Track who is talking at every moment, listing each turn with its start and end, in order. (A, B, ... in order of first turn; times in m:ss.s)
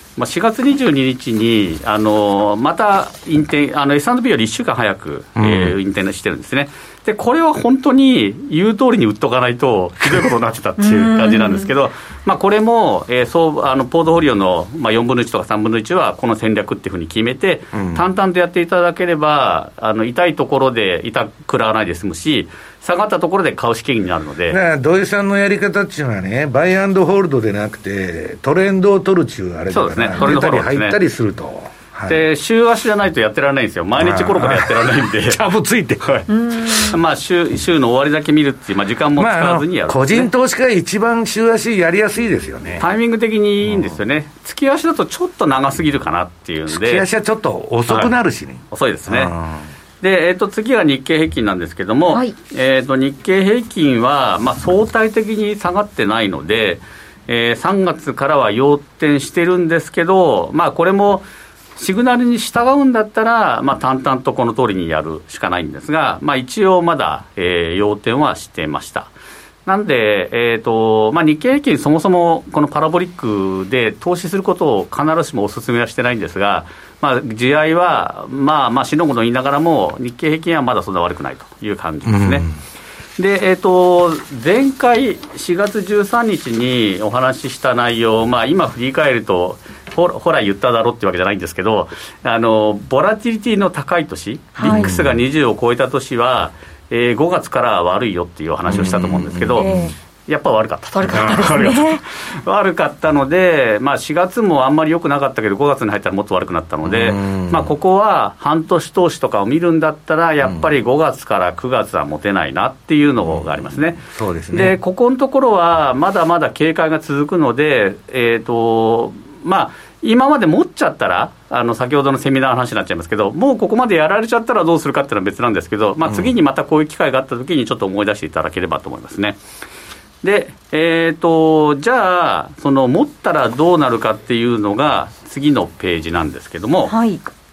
0:00.2-0:24.6 A
0:05.4-0:05.7 B
0:10.8-0:11.7 C
0:17.7-0:18.0 B
0:24.5-0:32.2 B
0:29.7-0:31.0 A
0:32.1-0:35.4 A
0:34.0-0:36.2 B
0:36.0-0:40.3 A
0:36.4-0:36.9 C
0:39.2-0:42.8 B
0:42.8-0:47.0 A
0:43.7-0:44.0 B
0:46.7-0:49.7 B
0:47.9-0:48.1 A
0:48.7-0:49.3 A
0:50.0-1:09.1 A
1:09.6-1:22.5 A
1:22.0-1:22.5 B
1:23.2-1:39.7 A
1:34.6-1:34.9 C
1:34.6-1:35.2 B
1:38.7-1:39.9 B
1:39.6-1:39.9 C
1:40.3-2:09.4 A
1:40.9-1:42.0 C
1:41.1-1:41.5 B
1:46.8-1:47.7 B
1:53.3-1:54.8 B
2:10.2-2:17.0 A
2:16.9-2:17.2 C